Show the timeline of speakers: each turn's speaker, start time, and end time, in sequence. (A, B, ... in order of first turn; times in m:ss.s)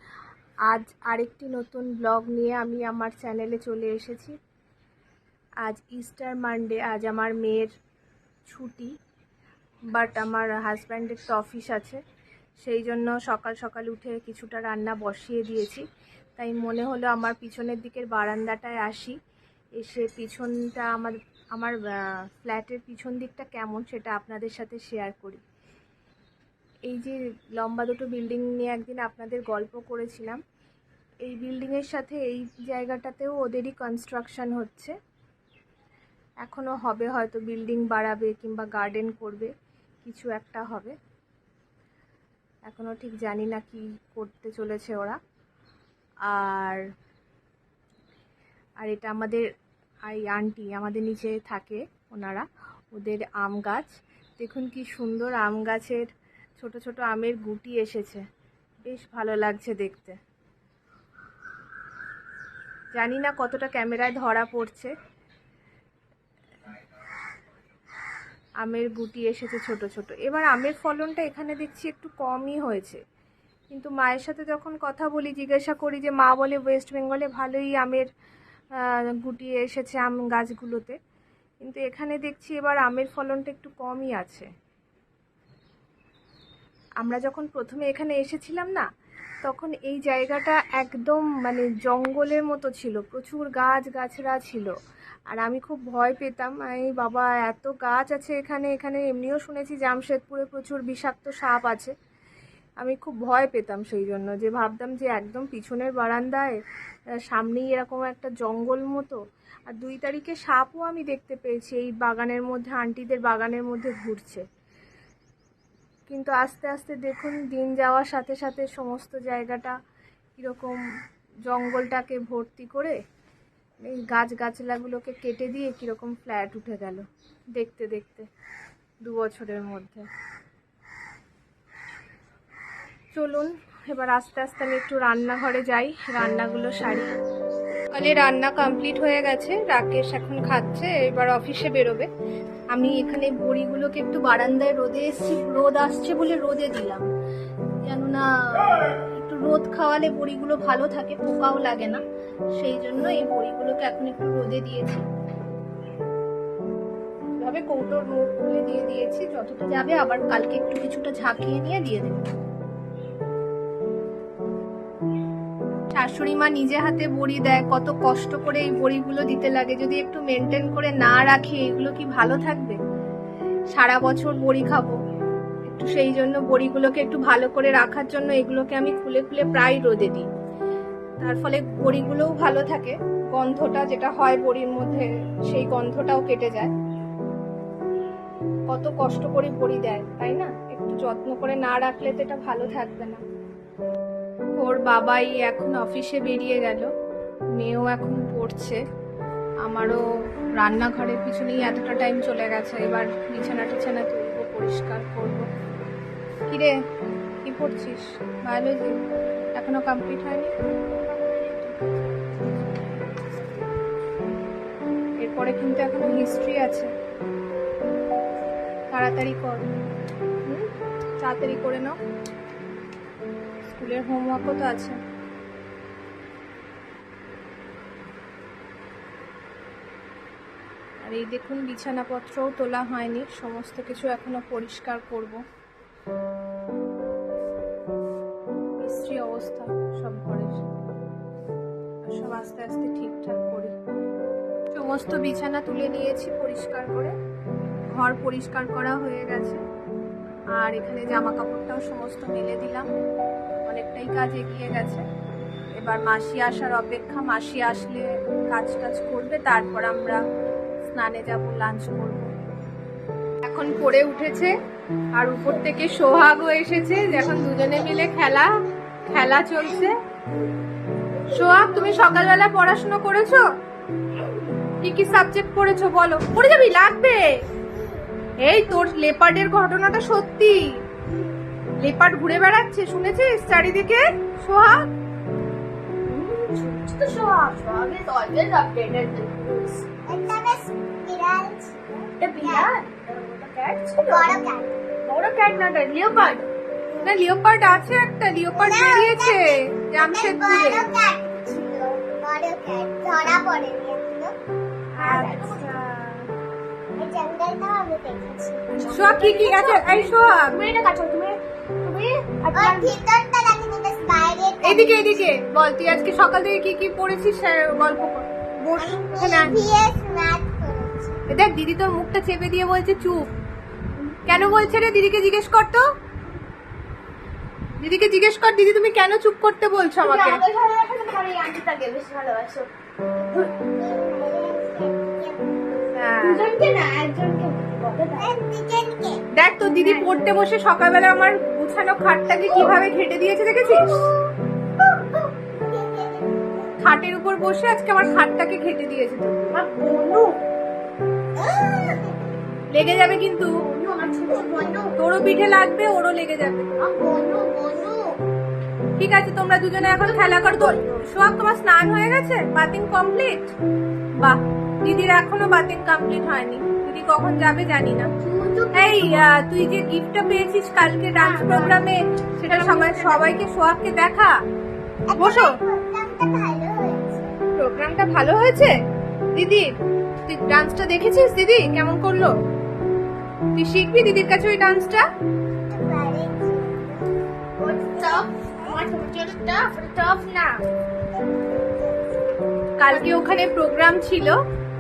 0:00.7-0:04.3 A
0:05.6-0:07.7 A
0:08.5-0:08.9 A
0:09.9-0:12.0 A
0:12.6-0:15.8 A
0:16.4-0:19.2 A
0:19.8-0:25.4 A
0:26.8-0:30.4 A
0:31.2-0:35.0 A
0:36.4-0:39.5 A
0:40.0-0:41.0 A
0:42.6-0:45.2 A
0:46.2-0:46.8 A
0:48.8-0:49.4 A
0:50.0-0:56.0 A
0:56.6-0:58.2 A
0:58.8-1:00.2 A
1:02.9-1:04.9 A
1:08.6-1:13.0 A
1:13.7-1:18.0 A
1:18.8-1:21.0 A
1:21.6-1:24.5 A
1:27.0-1:28.9 A
1:29.4-1:34.7 A
1:35.3-1:41.9 A
1:42.8-1:46.6 A
1:47.3-1:49.2 A
1:49.7-1:54.4 A
1:56.1-1:59.8 A
2:00.4-2:00.8 A
2:01.4-2:03.0 A
2:03.8-2:07.0 A
2:07.6-2:08.3 A
2:09.0-2:10.0 A
2:13.1-2:17.2 A
2:17.9-2:22.1 A
2:22.7-2:27.0 A
2:27.8-2:32.0 A
2:32.6-2:35.0 A
2:37.4-2:42.3 A
2:45.9-2:52.8 A
2:53.7-2:55.0 A
2:55.7-3:00.3 A
3:01.2-3:06.7 A
3:08.7-3:13.2 A
3:14.6-3:16.9 A
3:17.6-3:18.8 A
3:19.6-3:20.0 A
3:20.6-3:25.5 A
3:26.5-3:26.7 A
3:27.4-3:29.0 A
3:29.5-3:30.5 A
3:31.1-3:33.4 B
3:35.2-3:36.9 A
3:38.9-3:39.7 A
3:41.2-3:42.0 A
3:43.7-3:45.0 A
3:51.0-3:55.4 A
3:58.8-4:00.6 A
4:02.0-4:03.7 A
4:04.7-4:07.1 A
4:07.9-4:09.6 A
4:10.5-4:12.9 A
4:13.7-4:15.0 A
4:15.7-4:20.2 A
4:20.9-4:22.3 A
4:23.4-4:24.5 A
4:25.1-4:30.0 A
4:27.0-4:28.1 C
4:31.3-4:33.4 A
4:34.8-4:37.3 A
4:37.7-4:38.1 C
4:38.4-4:40.8 A
4:41.8-4:44.9 A
4:46.0-4:49.8 B
4:50.0-4:52.7 C
4:52.2-4:54.4 B
4:54.0-4:54.8 C
4:55.0-4:56.5 B
4:57.0-5:00.9 A
4:58.5-5:04.3 C
5:05.0-5:06.3 A
5:05.0-5:05.8 B
5:07.0-5:09.1 C
5:08.7-5:13.0 B
5:08.9-5:10.5 A
5:12.5-5:15.2 C
5:14.6-5:19.6 A
5:18.8-5:21.2 C
5:21.3-5:23.3 A
5:24.3-5:25.8 A
5:27.8-5:30.4 A
5:30.0-5:32.7 B
5:33.2-5:35.8 C
5:35.9-5:36.5 A
5:36.2-5:38.4 B
5:38.2-5:39.2 C
5:39.4-5:44.1 A
5:39.6-5:40.2 B
5:43.6-5:44.3 B
5:45.4-5:46.7 C
5:46.8-5:49.6 A
5:49.5-5:50.4 B
5:51.4-5:52.2 C
5:52.7-5:53.5 A
5:53.5-5:54.9 B
5:54.5-5:54.8 C
5:55.0-5:56.7 A
5:56.8-5:58.0 B
5:59.0-6:03.5 A
5:59.8-6:01.0 B
6:04.2-6:08.1 A
6:08.2-6:09.2 B
6:08.7-6:14.3 A
6:11.1-6:11.8 B
6:12.4-6:13.4 B
6:15.1-6:17.3 C
6:15.2-6:15.6 A
6:17.6-6:18.7 A
6:19.4-6:19.7 A
6:20.2-6:22.3 A
6:23.6-6:25.0 A
6:25.7-6:27.0 C
6:27.6-6:30.6 B
6:27.9-6:28.3 C
6:31.1-6:31.9 C
6:32.8-6:34.4 A
6:32.9-6:33.2 B